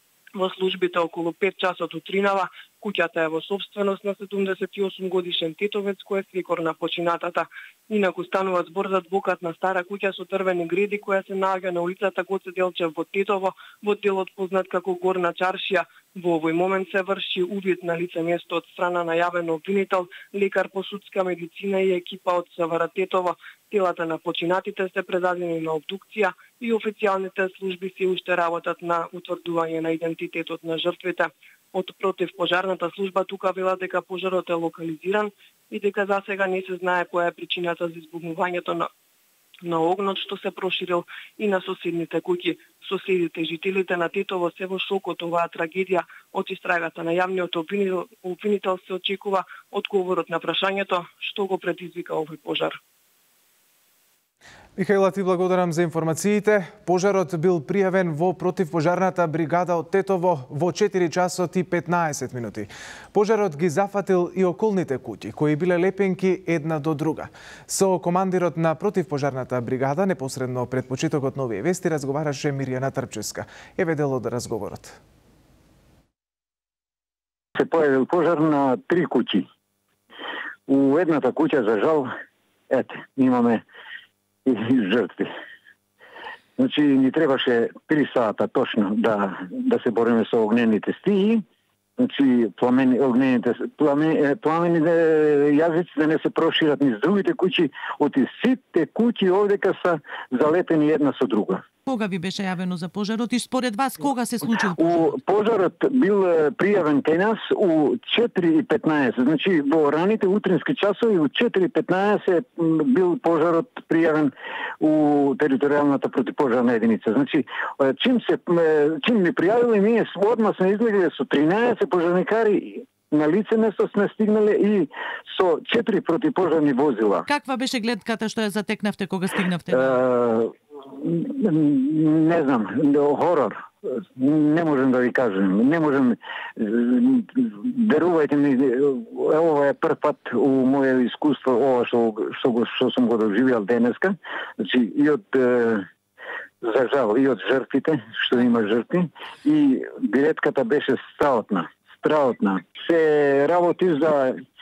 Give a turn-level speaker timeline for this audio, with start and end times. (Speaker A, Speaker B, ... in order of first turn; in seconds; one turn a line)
Speaker A: 0.3-38.9
Speaker A: 39.6-52.8
Speaker B: 54.8-75.0
Speaker C: 77.6-79.5
Speaker C: 80.7-82.1
Speaker C: 82.7-83.6
Speaker C: 84.5-85.3
Speaker C: 86.6-91.4
Speaker C: 92.0-101.6
Speaker D: 101.9-105.2
Speaker C: 104.8-127.3
Speaker D: 127.3-130.0
Speaker C: 129.7-145.9
Speaker C: 146.6-154.3